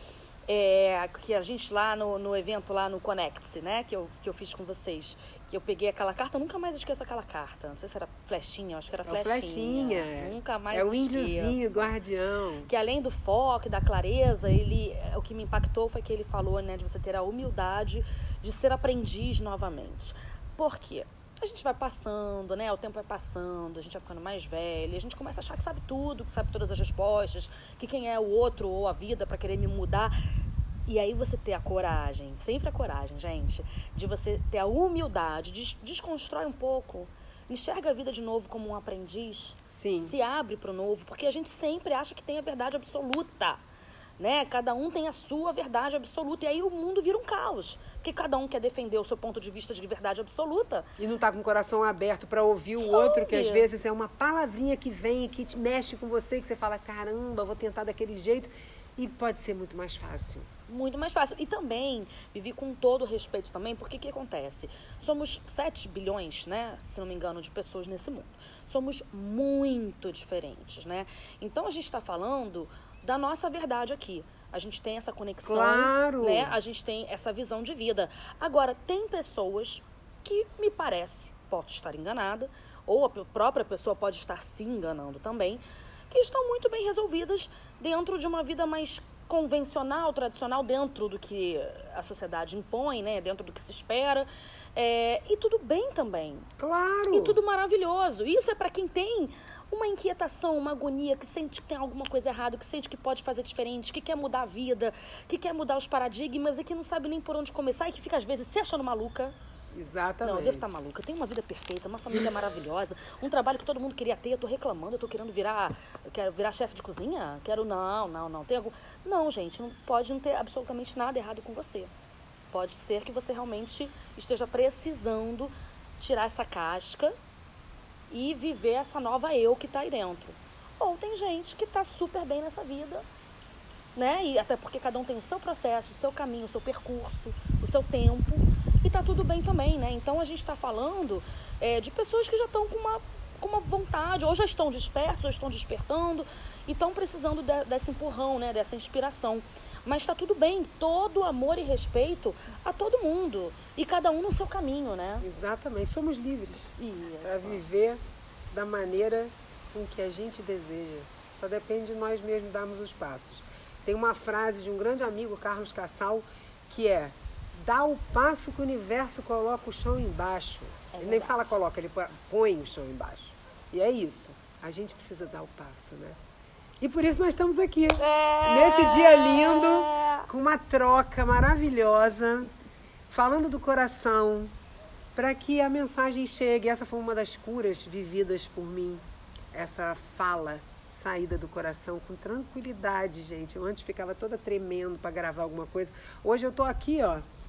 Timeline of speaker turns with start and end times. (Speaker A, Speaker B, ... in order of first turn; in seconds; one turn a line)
Speaker A: 0.5-11.9
Speaker B: 9.0-12.7
Speaker A: 12.7-30.1
Speaker A: 30.9-43.6
Speaker B: 39.7-40.1
Speaker A: 44.2-50.9
Speaker B: 51.0-60.5
Speaker A: 52.8-53.7
Speaker A: 60.7-96.5
Speaker B: 75.4-76.5
Speaker B: 96.6-97.4
Speaker A: 97.1-109.3
Speaker B: 109.7-110.7
Speaker A: 110.2-121.9
Speaker A: 122.5-127.1
Speaker A: 128.1-133.0
Speaker A: 133.9-155.2
Speaker B: 155.2-158.0
Speaker A: 156.8-157.6
Speaker B: 158.5-176.2
Speaker A: 170.9-171.5
Speaker B: 176.8-182.5
Speaker A: 178.0-180.3
Speaker B: 183.1-184.5
Speaker B: 185.1-197.2